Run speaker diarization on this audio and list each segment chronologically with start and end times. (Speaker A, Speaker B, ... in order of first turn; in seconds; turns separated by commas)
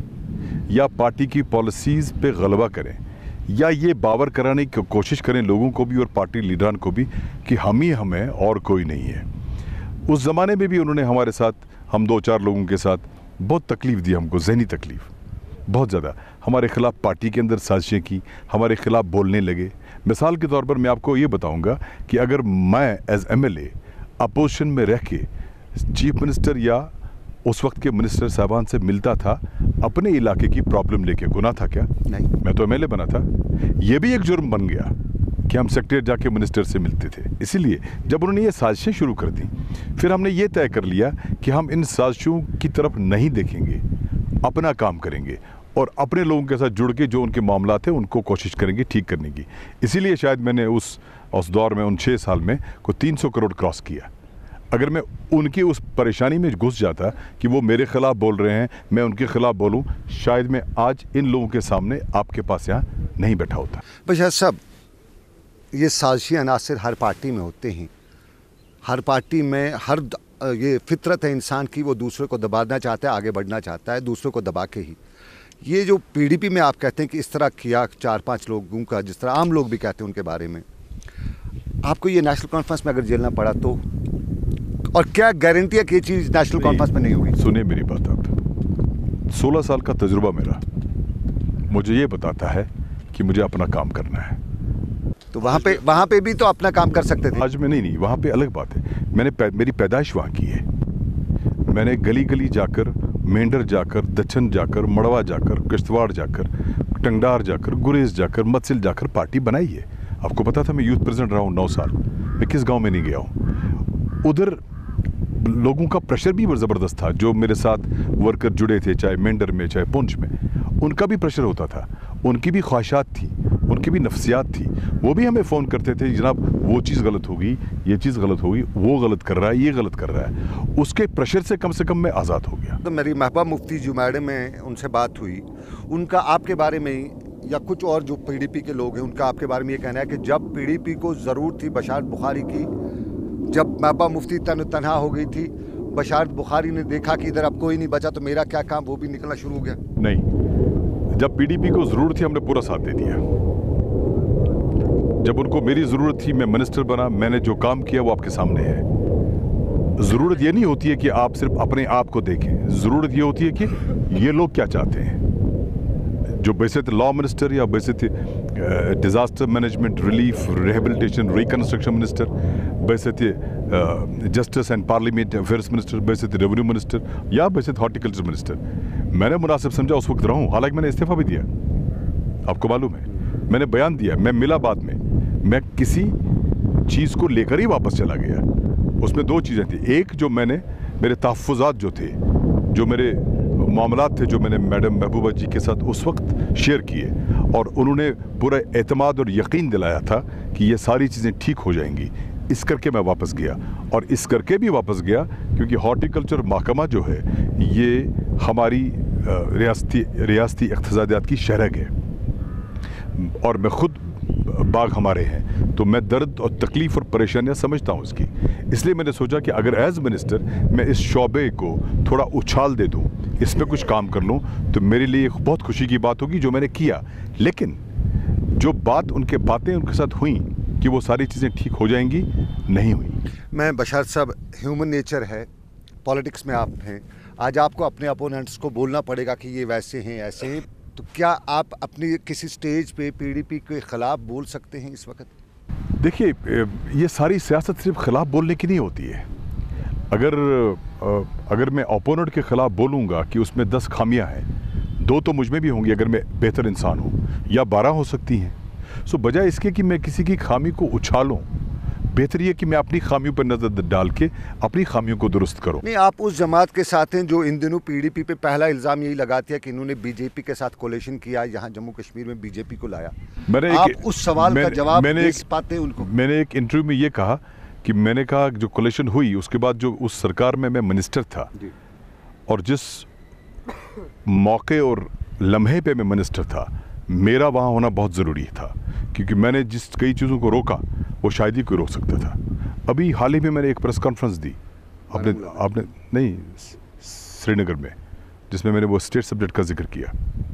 Speaker A: 0.7-9.2, Speaker A: 10.1-15.1, Speaker A: 15.7-26.9, Speaker A: 27.4-31.9, Speaker A: 32.4-34.9, Speaker A: 35.5-43.8, Speaker A: 44.4-54.1, Speaker A: 54.7-63.8, Speaker B: 64.0-64.6, Speaker B: 65.7-67.9, Speaker B: 68.8-75.0, Speaker B: 75.6-80.7, Speaker B: 81.8-83.8, Speaker B: 84.9-87.3, Speaker A: 86.6-88.3, Speaker A: 89.3-90.6, Speaker A: 91.7-94.4, Speaker B: 95.3-97.5, Speaker A: 97.4-100.6, Speaker A: 101.7-113.3, Speaker A: 114.2-114.6, Speaker A: 115.3-132.8, Speaker B: 132.8-142.7, Speaker B: 143.5-149.8, Speaker A: 150.0-150.2, Speaker A: 151.1-153.2, Speaker A: 155.2-158.8, Speaker A: 160.0-165.2, Speaker A: 166.3-178.6, Speaker A: 179.1-181.5, Speaker A: 182.4-186.2, Speaker A: 186.8-188.4, Speaker A: 189.0-192.2, Speaker A: 192.7-211.9, Speaker A: 213.1-227.8, Speaker A: 228.5-233.2, Speaker B: 233.5-235.5, Speaker B: 236.0-245.3, Speaker A: 246.0-249.2, Speaker A: 250.1-254.4, Speaker A: 255.0-261.4, Speaker A: 262.1-265.8, Speaker B: 265.8-273.1, Speaker A: 273.5-275.4, Speaker B: 273.6-276.1, Speaker A: 276.0-281.5, Speaker A: 282.5-283.1, Speaker A: 284.2-294.6, Speaker A: 295.1-297.9, Speaker A: 298.5-300.1